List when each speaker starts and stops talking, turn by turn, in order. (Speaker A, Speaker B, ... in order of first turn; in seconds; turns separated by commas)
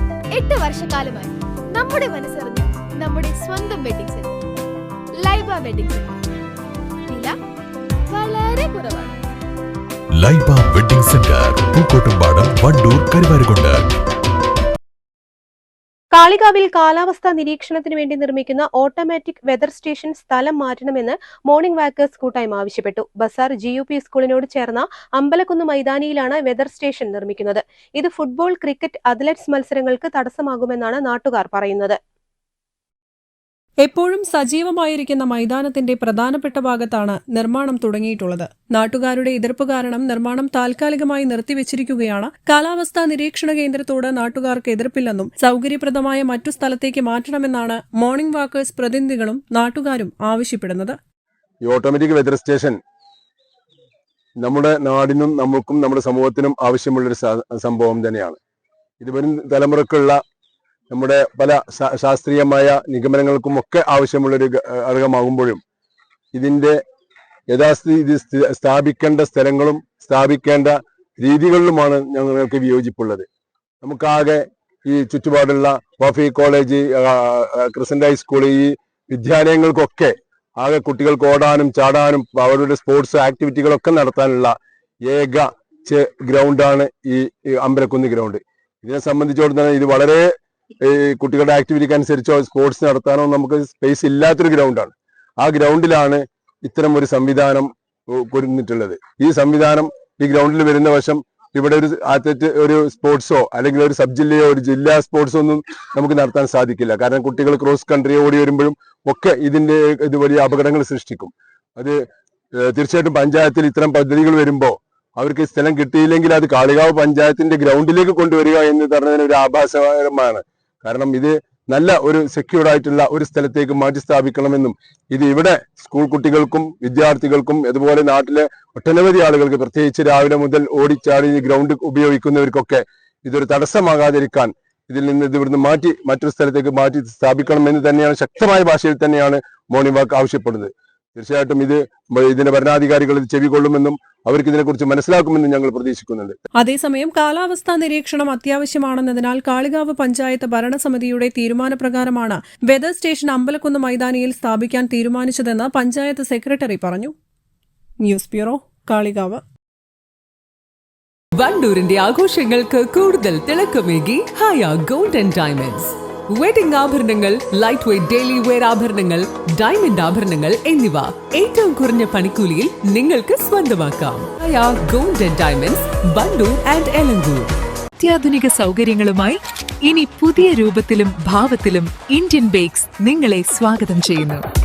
Speaker A: 0.3-4.3, Speaker A: 5.2-6.2, Speaker A: 7.1-7.4, Speaker A: 8.1-9.2, Speaker B: 10.2-13.8, Speaker C: 16.1-32.0, Speaker D: 33.8-51.0, Speaker E: 51.6-52.8, Speaker E: 54.4-58.4, Speaker E: 59.0-60.2, Speaker E: 60.9-65.6, Speaker E: 66.3-66.8, Speaker E: 67.5-73.2, Speaker E: 73.8-90.3, Speaker E: 90.8-112.0, Speaker E: 112.5-146.4, Speaker D: 146.6-157.1, Speaker D: 158.0-159.4, Speaker F: 161.4-177.5, Speaker G: 178.0-184.4